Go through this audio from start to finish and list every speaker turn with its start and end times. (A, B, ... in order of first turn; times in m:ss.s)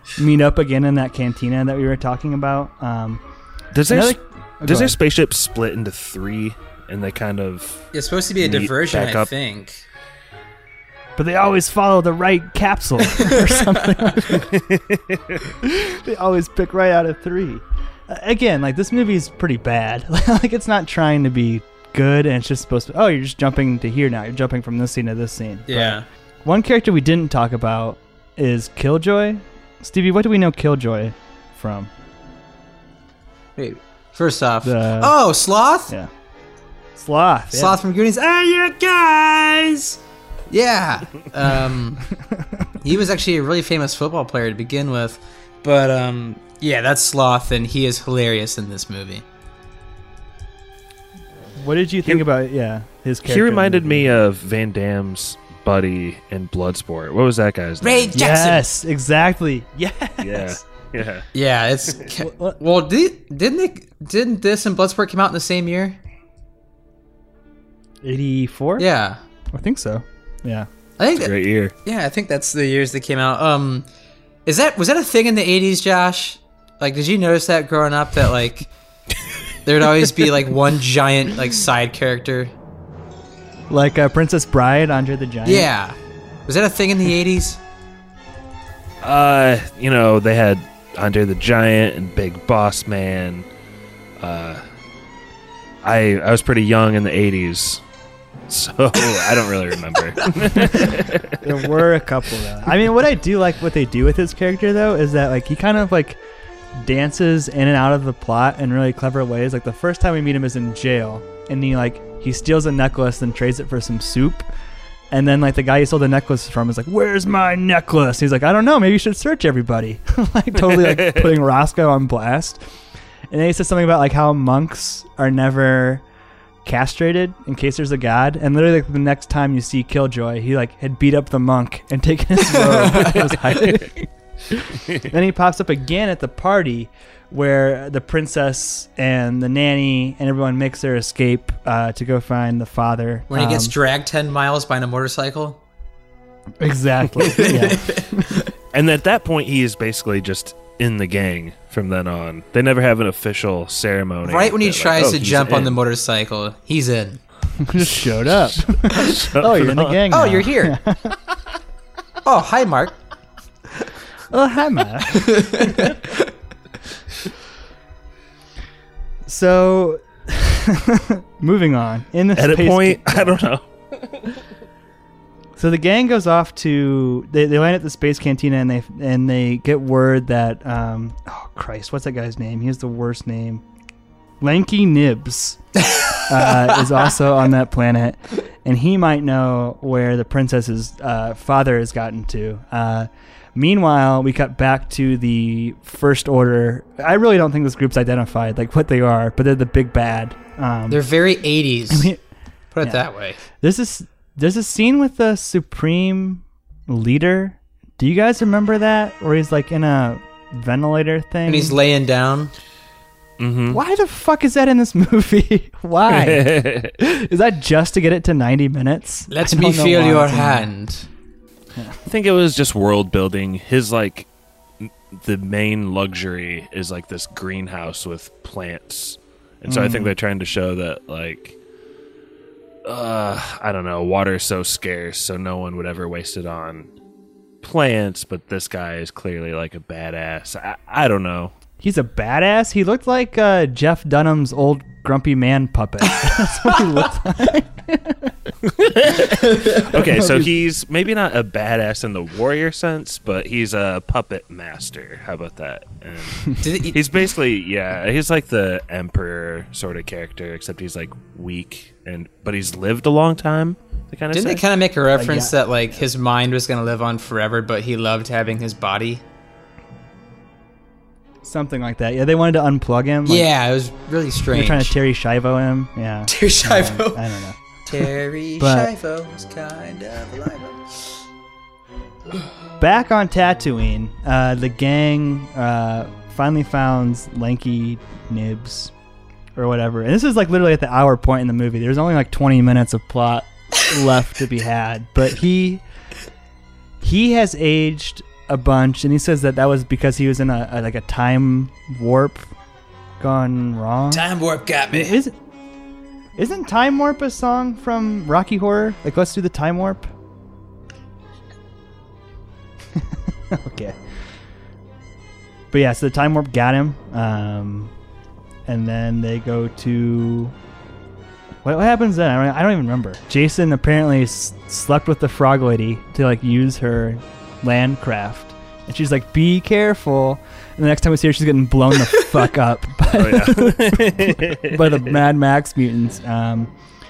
0:00.2-0:03.2 A
0:03.7-0:07.9 B
0:03.9-0:05.0 A
0:07.9-0:09.8 C
0:08.4-0:09.3 B
0:11.2-0:14.5 A
0:14.4-0:15.4 B
0:15.6-0:31.9 A
0:25.7-0:26.0 C
0:33.6-0:35.9 C
0:34.6-0:35.2 A
0:37.0-0:37.8 A
0:37.5-0:40.0 C
0:40.5-0:42.0 C
0:42.3-0:42.6 A
0:42.8-0:49.2 C
0:51.6-0:54.1 A
0:53.2-0:58.2 B
0:57.8-0:58.6 C
0:58.1-1:00.6 A
1:00.2-1:01.3 B
1:01.3-1:06.0 C
1:02.2-1:02.6 A
1:08.0-1:08.8 A
1:08.8-1:09.2 C
1:09.5-1:10.7 A
1:11.0-1:13.8 C
1:11.1-1:11.7 B
1:14.4-1:18.7 C
1:19.6-1:22.5 C
1:23.7-1:25.7 A
1:25.4-1:26.0 C
1:26.5-1:27.6 C
1:29.0-1:33.5 B
1:34.2-1:34.6 B
1:35.8-1:37.8 B
1:38.5-1:41.6 B
1:41.4-1:46.2 A
1:46.8-1:54.5 A
1:55.1-2:02.6 A
2:00.7-2:01.3 B
2:03.3-2:06.0 A
2:06.6-2:23.7 A
2:12.6-2:13.3 C
2:23.3-2:25.6 C
2:26.6-2:28.3 A
2:27.2-2:28.5 C
2:28.7-2:35.8 B
2:34.2-2:37.2 C
2:37.6-2:41.2 A
2:38.7-2:40.0 B
2:40.1-2:40.8 C
2:42.2-2:43.0 C
2:44.3-2:45.4 A
2:45.1-2:46.2 C
2:49.3-2:53.4 A
2:52.3-2:54.2 B
2:55.6-3:03.6 A
3:04.4-3:05.6 A
3:05.8-3:06.1 C
3:06.2-3:21.0 A
3:20.9-3:22.1 C
3:21.9-3:22.2 A
3:22.7-3:23.4 C
3:23.6-3:31.8 A
3:31.5-3:32.5 C
3:33.4-3:33.8 B
3:33.7-3:40.7 A
3:36.1-3:36.9 B
3:39.3-3:41.1 C
3:41.7-3:42.0 A
3:42.0-3:44.3 B
3:44.8-3:51.6 B
3:49.7-3:50.1 A
3:52.8-3:56.9 B
3:57.6-4:01.5 B
4:01.8-4:08.3 A
4:08.6-4:24.6 B
4:10.0-4:10.5 A
4:16.6-4:17.0 C
4:24.3-4:29.2 C
4:25.1-4:25.6 A
4:31.4-4:33.5 A
4:33.2-4:34.9 C
4:34.5-4:37.6 A
4:36.3-4:37.2 C
4:37.9-4:41.0 C
4:38.6-4:38.9 A
4:42.8-4:48.9 A
4:49.6-4:55.8 A
4:57.0-5:02.5 A
5:03.2-5:04.2 A
5:04.1-5:05.2 C
5:04.9-5:05.4 A
5:06.4-5:10.1 A
5:13.5-5:14.0 A
5:15.7-5:17.9 A
5:18.7-5:20.5 A
5:21.6-5:36.7 A
5:33.1-5:35.2 B